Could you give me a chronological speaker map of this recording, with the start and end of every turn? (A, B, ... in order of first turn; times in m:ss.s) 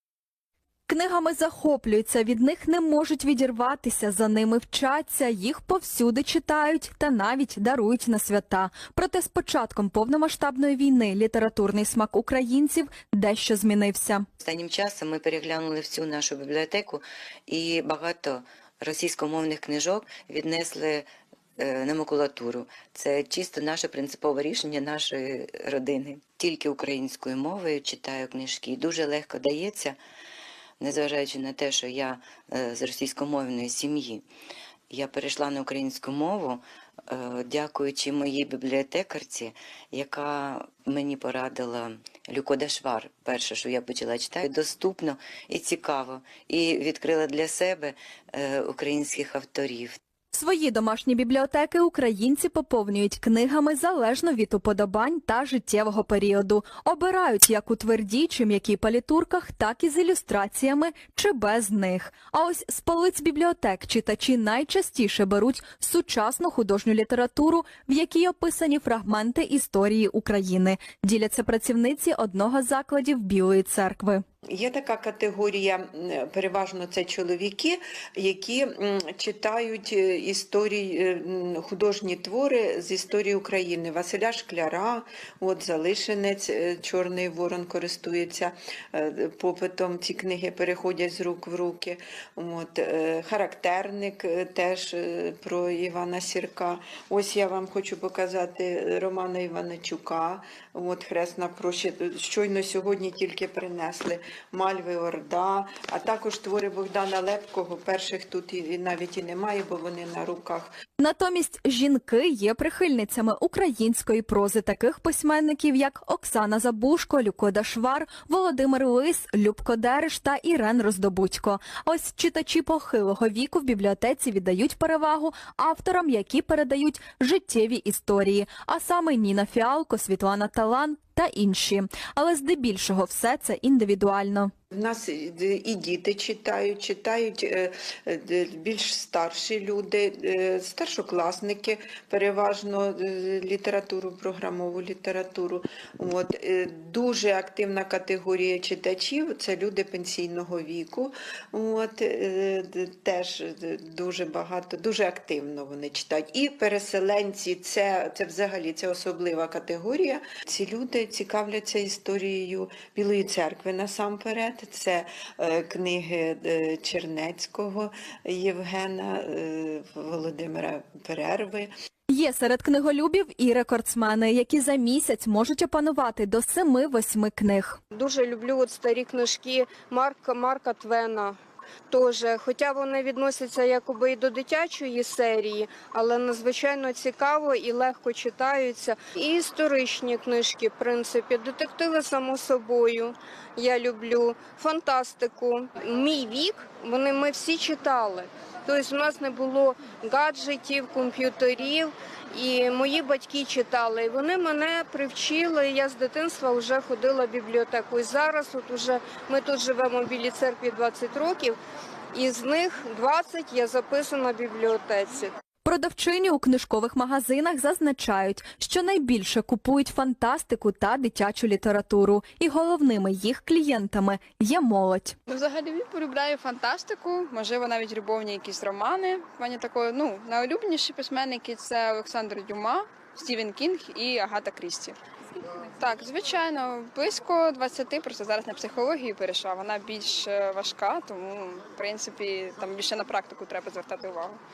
0:00.9-0:14.2 A
0:14.4-0:21.1 B
0:21.6-0:30.0 B
0:30.8-0:34.2 B
0:34.9-0:50.0 B
0:50.3-1:14.2 A
1:14.5-1:50.7 C
1:51.0-2:14.5 A
2:14.7-2:51.7 C
2:52.1-2:57.8 A
2:57.9-3:01.4 D
3:01.9-3:31.6 D
3:32.1-3:35.3 D
3:35.6-3:45.2 A
3:45.3-3:55.0 E
3:55.6-4:04.4 E